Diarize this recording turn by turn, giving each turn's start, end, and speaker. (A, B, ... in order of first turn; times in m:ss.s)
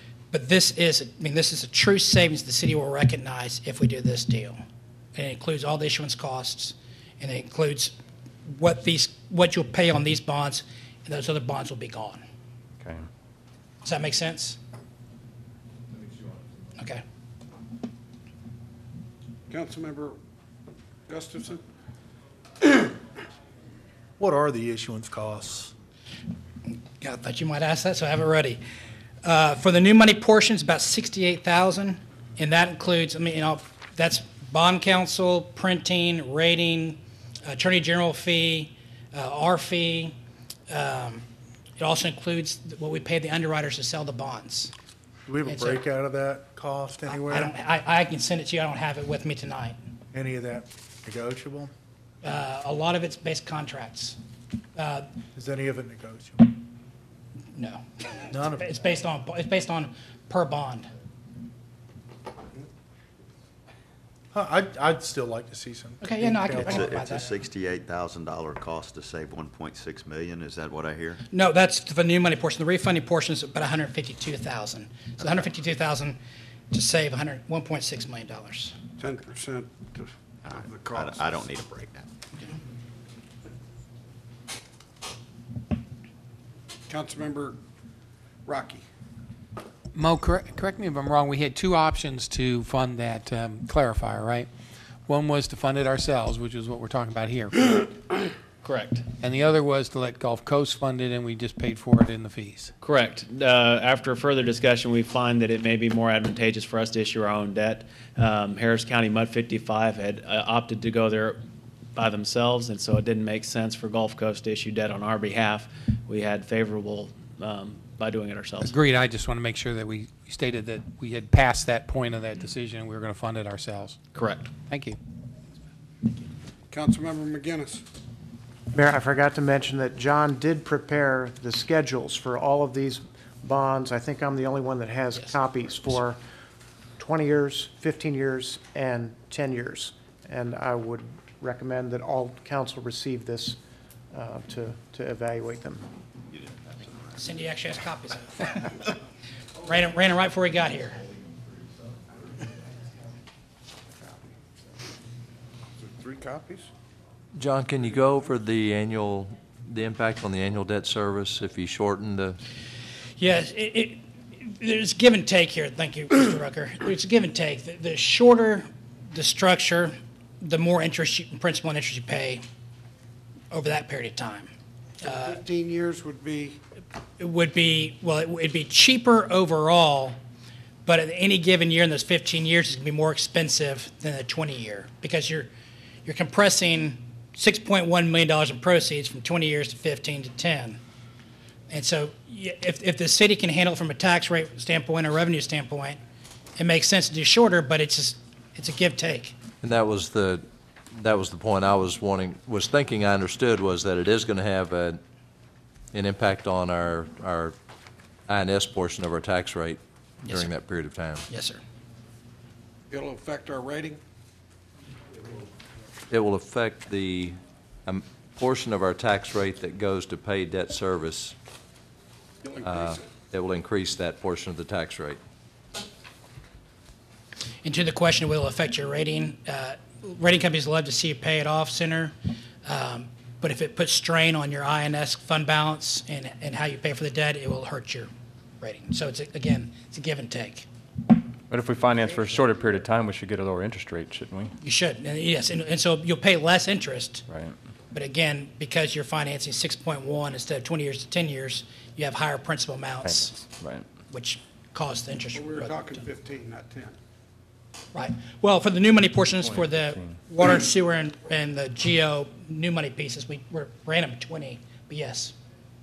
0:00.3-0:04.6 A
0:05.2-0:08.0 A
0:08.5-0:12.2 A
0:13.8-0:14.6 A
0:16.8-0:17.0 A
0:19.5-0:20.2 B
0:21.1-0:21.6 B
0:24.2-0:25.7 C
0:27.0-0:28.6 A
0:29.2-0:40.2 A
0:40.7-0:41.2 A
0:41.8-0:44.7 A
0:45.3-0:47.5 C
0:45.5-0:45.8 A
0:47.1-0:49.8 A
0:50.1-0:51.7 C
0:52.2-0:54.2 A
0:54.8-0:55.1 A
0:55.4-0:56.5 C
0:57.6-1:00.9 A
0:58.3-0:58.7 C
1:04.3-1:06.8 C
1:06.0-1:07.3 A
1:06.6-1:11.2 D
1:11.3-1:16.2 A
1:16.7-1:18.8 A
1:19.0-1:21.4 B
1:20.5-1:22.1 D
1:26.9-1:27.6 B
1:28.5-1:28.8 B
1:29.9-1:34.5 E
1:35.1-1:37.9 E
1:38.6-1:39.0 F
1:39.2-1:42.8 E
1:42.8-1:51.4 F
1:52.0-1:58.7 F
1:58.6-2:04.0 E
2:04.2-2:04.5 F
2:04.6-2:05.0 E
2:06.7-2:07.8 B
2:08.7-2:16.2 G
2:17.0-2:23.6 G
2:24.1-2:25.8 G
2:26.3-2:27.2 D
2:27.2-2:28.8 A
2:29.6-2:31.0 A
2:35.8-2:36.7 B
2:37.4-2:42.4 H
2:43.2-2:52.4 A
2:53.5-2:54.5 A
2:55.0-2:55.4 A
2:55.0-2:56.6 B
2:57.2-3:00.2 A
3:00.8-3:05.5 A
3:06.0-3:10.8 A
3:11.7-3:16.0 A
3:16.6-3:19.4 A
3:19.6-3:25.0 H
3:25.9-3:27.6 H
3:28.3-3:31.3 H
3:30.2-3:30.5 A
3:31.3-3:31.6 A
3:32.9-3:34.0 B
3:36.1-3:41.4 H
3:42.4-3:43.0 B
3:42.6-3:45.2 H
3:47.6-3:52.1 A
3:52.6-4:00.7 A
4:01.5-4:04.5 I
4:04.6-4:07.3 A
4:07.9-4:13.5 A
4:13.0-4:13.8 I
4:14.1-4:16.1 A
4:15.3-4:17.0 B
4:17.9-4:25.4 A
4:19.4-4:20.1 I